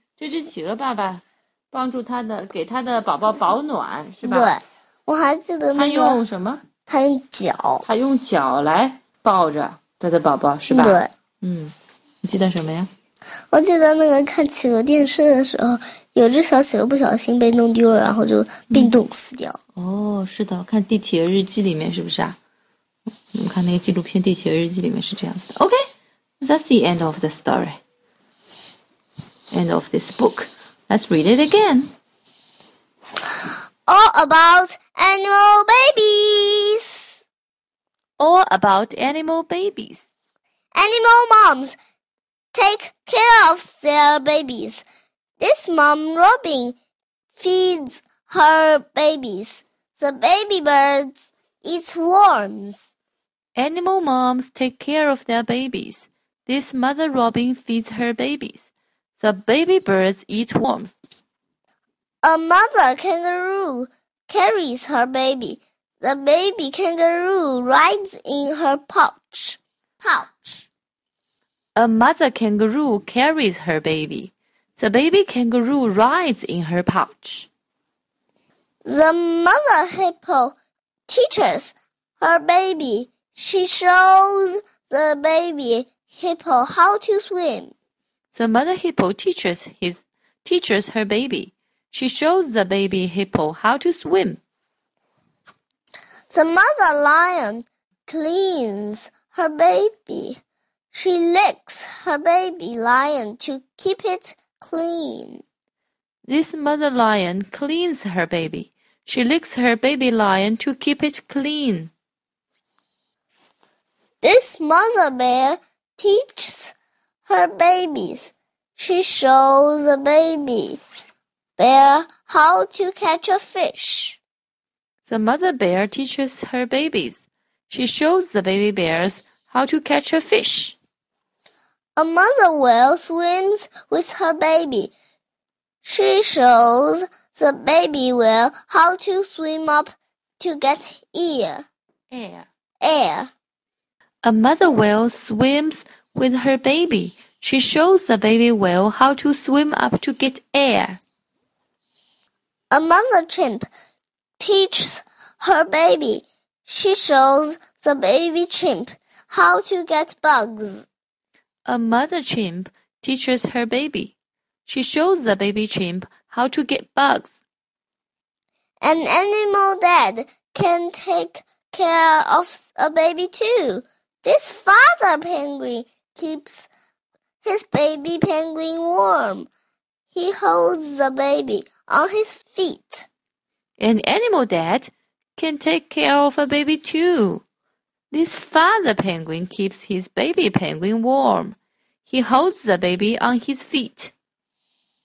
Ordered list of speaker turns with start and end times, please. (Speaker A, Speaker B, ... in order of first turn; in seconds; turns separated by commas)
Speaker A: 0.2-4.5, Speaker B: 4.2-6.2, Speaker A: 5.7-6.6, Speaker B: 6.9-7.9, Speaker A: 7.8-11.7, Speaker B: 10.7-11.1, Speaker A: 12.2-12.9, Speaker B: 13.5-19.6, Speaker A: 18.7-19.0, Speaker A: 19.8-22.4, Speaker A: 23.3-25.8, Speaker A: 26.4-27.8, Speaker A: 29.5-31.9, Speaker B: 33.9-37.1, Speaker A: 38.2-40.1, Speaker B: 40.8-41.8, Speaker B: 42.5-44.8, Speaker B: 45.4-46.8, Speaker B: 47.4-52.9, Speaker A: 53.6-58.7, Speaker A: 59.2-61.0, Speaker B: 62.2-70.7, Speaker A: 71.8-77.5, Speaker B: 78.9-80.6, Speaker B: 81.1-87.7, Speaker A: 88.3-94.4, Speaker B: 96.3-100.4, Speaker B: 100.9-105.4, Speaker A: 106.3-111.9, Speaker B: 114.2-116.8, Speaker B: 117.3-120.8, Speaker B: 121.6-124.2, Speaker A: 125.0-130.8, Speaker B: 132.0-134.9, Speaker B: 135.8-141.7, Speaker A: 142.1-142.5, Speaker B: 142.8-143.3, Speaker A: 144.2-151.0, Speaker B: 152.7-153.7, Speaker B: 154.4-160.9, Speaker A: 161.7-164.2, Speaker A: 164.7-167.4, Speaker B: 168.8-176.7, Speaker B: 177.4-179.5, Speaker B: 180.1-183.1, Speaker A: 183.8-187.4, Speaker A: 188.1-191.6, Speaker A: 192.1-194.1